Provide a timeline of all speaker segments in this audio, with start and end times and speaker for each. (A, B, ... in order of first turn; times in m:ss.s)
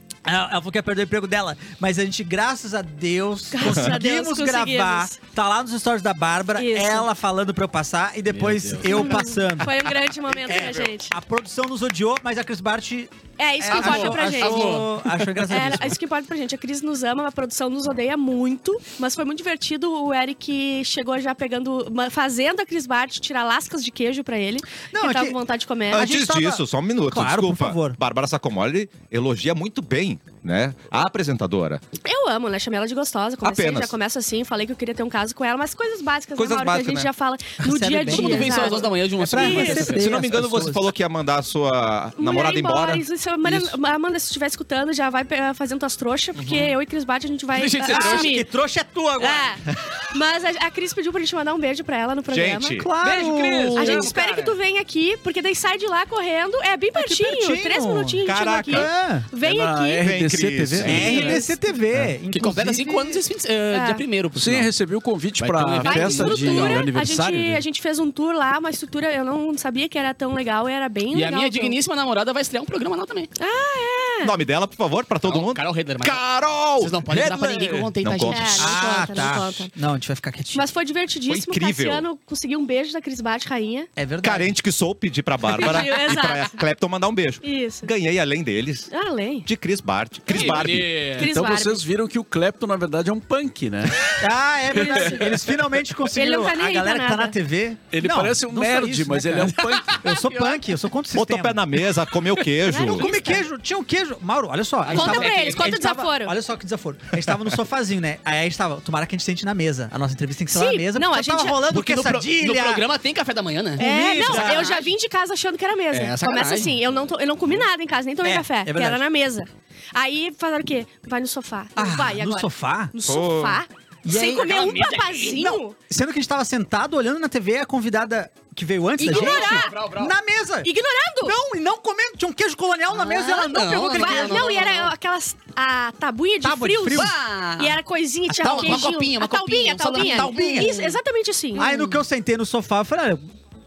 0:00.2-0:09.9 A
0:03.5-0:05.2 B
0:06.5-0:07.1 B
0:08.4-0:08.9 C
0:08.8-0:11.1 B
0:10.4-0:16.0 A
0:13.4-0:14.9 B
0:13.7-0:14.9 D
0:15.5-0:26.1 B
0:24.9-0:25.4 A
0:25.9-0:28.0 A
0:25.9-0:31.8 E
0:32.0-0:40.0 B
0:33.4-0:33.9 E
0:36.4-0:37.1 E
0:37.6-0:40.9 A
0:38.0-0:40.1 D
0:39.8-0:43.7 E
0:42.2-0:48.5 B
0:46.4-0:46.7 E
0:47.5-0:48.3 D
0:47.8-0:49.6 A
0:49.2-0:52.8 B
0:52.3-0:52.9 E
0:52.7-0:54.1 A
0:53.0-0:54.6 D
0:53.7-1:00.0 B
0:56.9-0:59.3 A
0:58.2-0:58.9 E
0:59.4-1:01.4 C
1:00.0-1:01.2 E
1:00.8-1:01.4 D
1:00.8-1:03.2 A
1:01.1-1:01.6 B
1:02.3-1:04.7 D
1:03.7-1:04.0 B
1:04.3-1:07.6 C
1:05.4-1:06.9 D
1:05.8-1:11.8 B
1:11.1-1:13.3 D
1:13.4-1:14.4 B
1:14.2-1:18.7 E
1:15.2-1:16.2 D
1:16.8-1:18.7 D
1:18.3-1:19.7 B
1:18.6-1:20.6 A
1:20.5-1:23.9 B
1:21.3-1:22.0 E
1:24.0-1:24.6 A
1:24.2-1:28.9 E
1:25.4-1:26.6 B
1:27.4-1:27.9 B
1:28.9-1:29.5 B
1:29.4-1:31.1 E
1:30.3-1:31.2 D
1:30.3-1:34.2 C
1:31.2-1:31.8 B
1:34.2-1:41.9 A
1:34.7-1:35.3 B
1:34.7-1:35.7 C
1:36.1-1:37.4 B
1:37.9-1:40.0 C
1:39.8-1:40.6 D
1:41.1-1:43.0 E
1:42.6-1:43.4 B
1:42.8-1:52.8 A
1:44.8-1:45.7 D
1:44.9-1:46.4 B
1:50.5-1:51.6 B
1:51.7-1:54.7 D
1:53.8-1:54.9 A
1:53.8-2:05.8 B
1:55.9-1:56.7 D
1:58.2-1:59.0 A
2:01.8-2:02.9 A
2:03.0-2:03.6 E
2:04.0-2:14.8 A
2:04.4-2:05.3 D
2:09.0-2:09.8 B
2:09.1-2:10.1 D
2:10.6-2:11.4 B
2:12.9-2:14.9 D
2:13.9-2:22.0 B
2:16.4-2:17.2 A
2:16.9-2:17.8 D
2:18.3-2:18.9 A
2:18.4-2:20.8 D
2:20.0-2:20.9 A
2:21.6-2:23.2 A